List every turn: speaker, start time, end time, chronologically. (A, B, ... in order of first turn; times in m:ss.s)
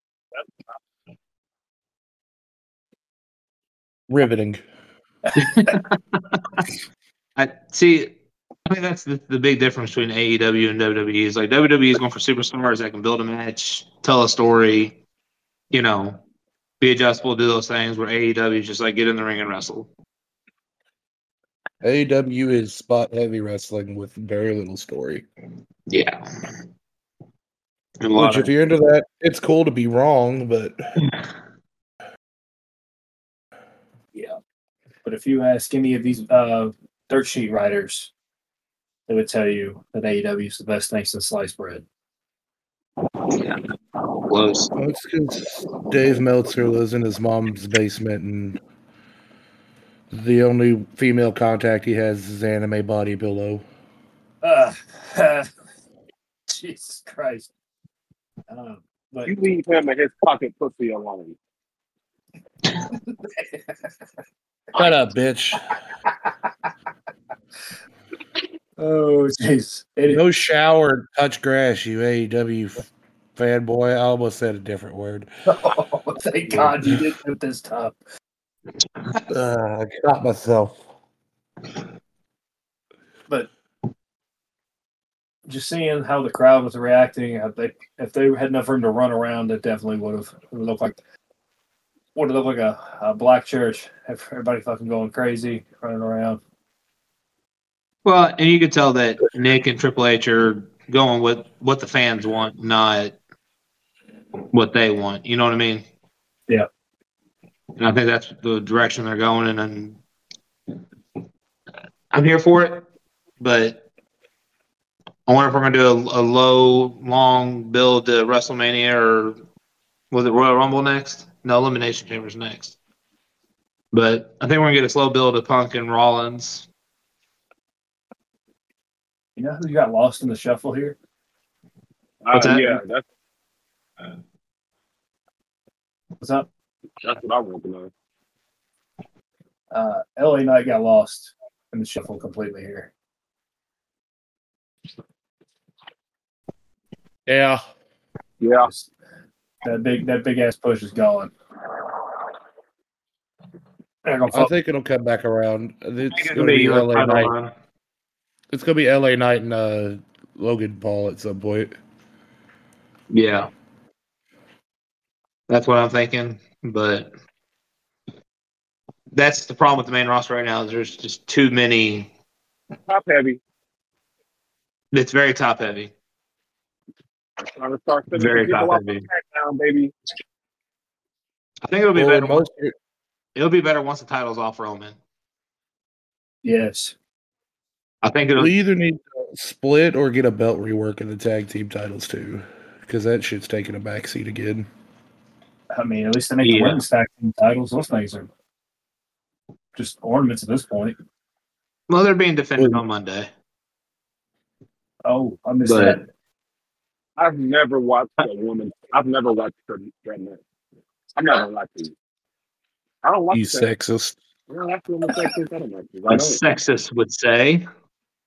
0:04.1-0:04.6 A
0:05.4-0:05.8 B
0:05.5-0:06.6 C
0:07.4-0:08.1 C
0:08.7-0:15.0 C
0:15.7-0:16.2 C
0:16.8-0:19.9 C
0:21.8-0:25.2 A
0:25.9-0:26.3 C
0:28.0-0:28.5 C
0:28.2-0:30.9 A
0:35.0-0:38.1 B
0:39.1-0:41.8 B
0:44.2-0:44.7 C
0:44.8-0:48.6 A
0:50.1-0:53.6 A
0:54.4-0:55.5 B
0:56.5-0:57.5 B
0:58.5-0:59.3 B
0:59.2-1:01.4 D
1:03.2-1:03.6 B
1:04.7-1:05.7 A
1:08.8-1:10.2 B
1:10.1-1:15.3 A
1:15.5-1:18.0 B
1:19.3-1:20.8 A
1:25.5-1:31.0 B
1:32.1-1:36.4 B
1:38.0-1:43.2 C
1:44.5-1:45.8 C
1:47.8-1:50.0 C
1:52.1-1:52.8 C
1:53.4-1:53.8 C
1:55.3-1:59.4 C
2:00.1-2:02.8 C
2:03.9-2:06.6 C
2:09.4-2:11.0 B
2:12.2-2:13.0 D
2:12.3-2:12.8 C
2:16.2-2:16.5 B
2:17.0-2:17.9 D
2:19.7-2:22.9 B
2:27.3-2:27.6 A
2:28.4-2:28.7 D
2:28.6-2:28.9 B
2:29.6-2:31.3 B
2:34.0-2:34.5 B
2:34.3-2:37.3 A
2:36.1-2:37.5 C
2:38.5-2:41.7 A
2:43.1-2:43.5 C
2:45.5-2:47.1 C
2:49.1-2:52.1 C
2:52.9-2:53.4 D
2:54.9-2:55.9 C
2:57.4-2:59.9 D
2:58.1-2:59.0 C
3:01.6-3:02.4 C
3:01.9-3:02.7 A
3:03.4-3:05.0 C
3:06.4-3:06.9 B
3:08.0-3:08.5 C
3:08.4-3:14.7 A
3:15.7-3:18.3 B
3:16.4-3:16.8 C
3:19.7-3:21.0 B
3:21.9-3:23.3 C
3:25.0-3:26.1 B
3:25.6-3:26.0 C
3:27.2-3:30.4 D
3:31.2-3:31.9 D
3:33.0-3:33.7 D
3:33.3-3:34.2 A
3:34.5-3:36.4 D
3:36.1-3:37.6 C